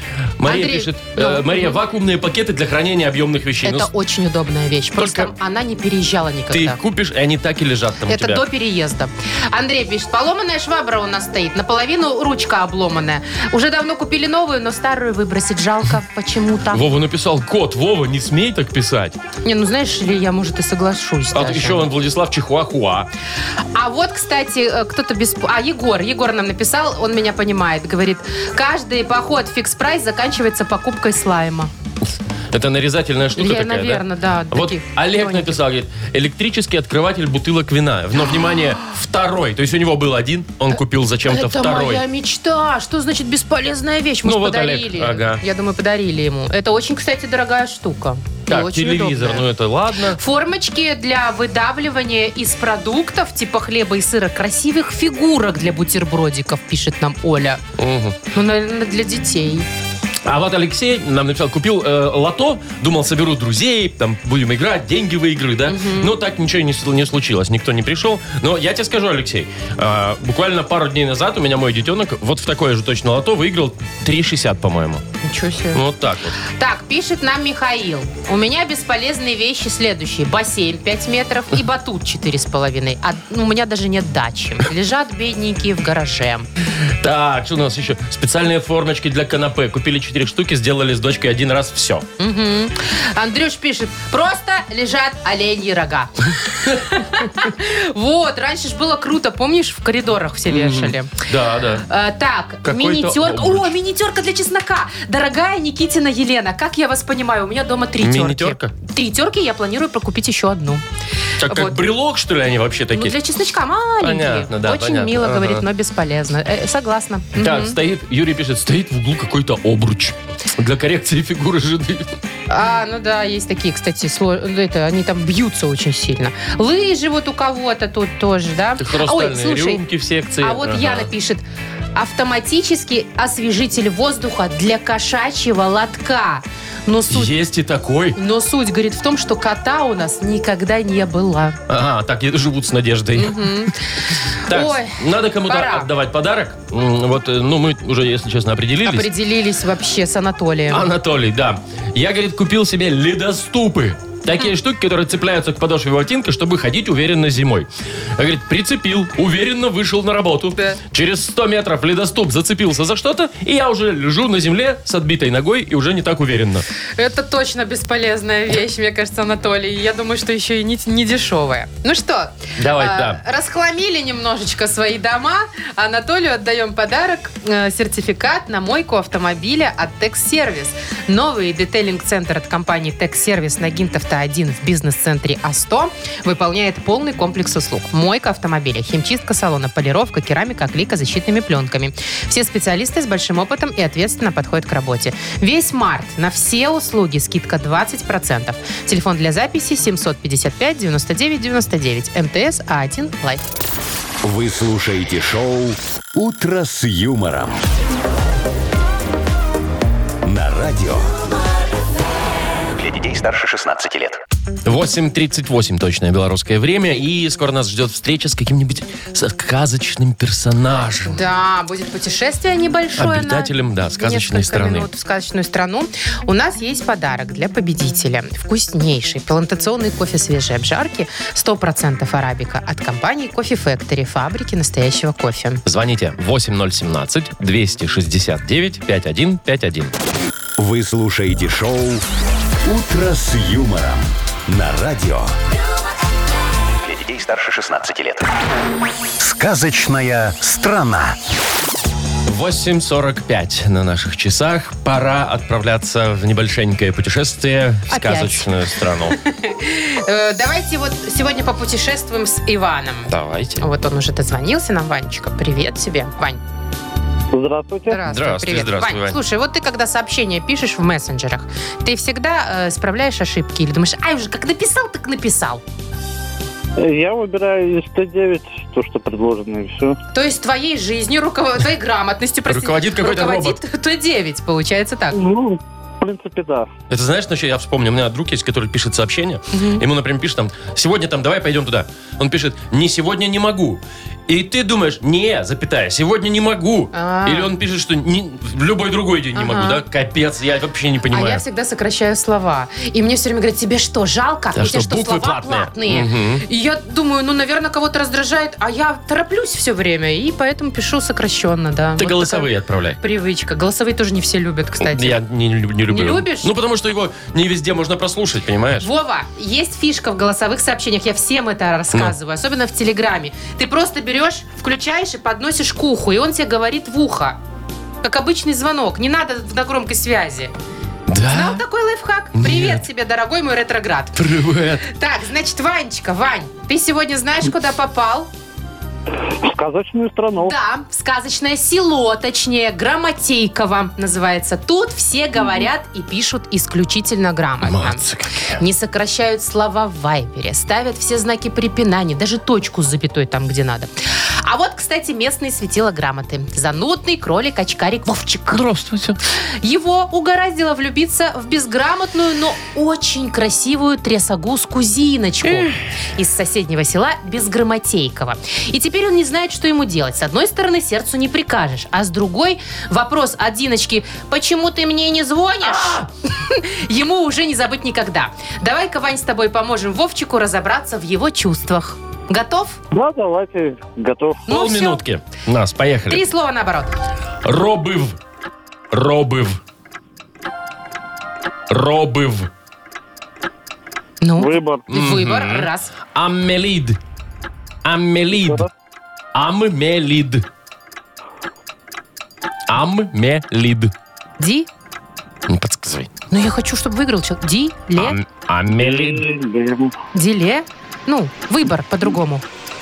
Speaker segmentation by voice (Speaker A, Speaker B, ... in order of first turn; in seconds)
Speaker A: 0.4-3.9, 5.0-5.3, 6.5-8.4, 16.7-19.2, 21.3-23.1, 32.5-42.0, 44.2-45.4, 48.5-50.2, 57.8-58.2, 60.2-75.0, 75.7-76.4, 87.0-92.1, 100.5-101.8, 102.7-103.7, 108.0-108.7, 111.4-113.2, 114.0-115.7, 117.4-122.1, 128.8-131.1, 137.1-138.2, 141.7-143.7, 144.5-149.1, 150.7-166.7, 172.6-173.2, 214.7-221.2, 223.0-224.9, 235.7-239.9, 252.3-259.2, 263.1-263.6, 268.1-269.2, 282.5-283.6, 286.9-301.4, 304.6-306.4, 312.0-313.0, 314.8-318.9, 331.1-331.6, 332.4-332.8, 334.2-334.9, 347.6-348.6, 358.5-359.2, 365.5-365.7, 384.5-386.2, 387.4-388.2, 388.9-389.6, 391.7-392.5, 394.9-397.0, 397.8-398.6, 399.4-400.5, 402.7-403.9, 405.5-406.1, 408.0-409.2
Speaker B: 0.4-1.8, 3.6-6.8, 8.1-16.9, 19.4-21.9, 23.7-31.7, 33.4-35.6, 41.3-49.4, 50.1-57.6, 58.3-59.7, 65.7-66.1, 75.2-75.8, 76.5-86.5, 92.2-101.3, 101.8-110.8, 111.4-111.9, 112.9-117.8, 122.5-129.8, 130.4-131.4, 131.9-137.3, 138.2-141.6, 143.2-143.8, 144.5-145.9, 148.8-150.9, 167.0-203.5, 221.1-235.6, 257.9-258.5, 259.1-266.4, 267.9-275.6, 280.1-285.2, 289.5-289.8, 296.9-297.5, 299.4-299.8, 301.1-312.5, 313.0-315.2, 315.9-316.5, 318.8-327.4, 328.0-330.5, 331.3-334.2, 334.9-338.3, 340.4-348.0, 348.6-353.9, 354.4-358.6, 359.6-382.8, 384.5-385.0, 386.1-386.9, 394.2-395.9, 404.4-404.7, 406.3-408.2, 410.1-412.4
Speaker C: 204.2-207.6, 210.2-211.1, 240.6-242.0, 242.6-245.3, 249.2-251.2
Speaker D: 212.8-214.2, 246.8-248.2
Speaker E: 267.3-268.0, 276.8-280.0, 285.1-286.7, 339.4-340.6, 382.9-384.5, 394.4-394.9, 398.4-398.7, 408.7-409.9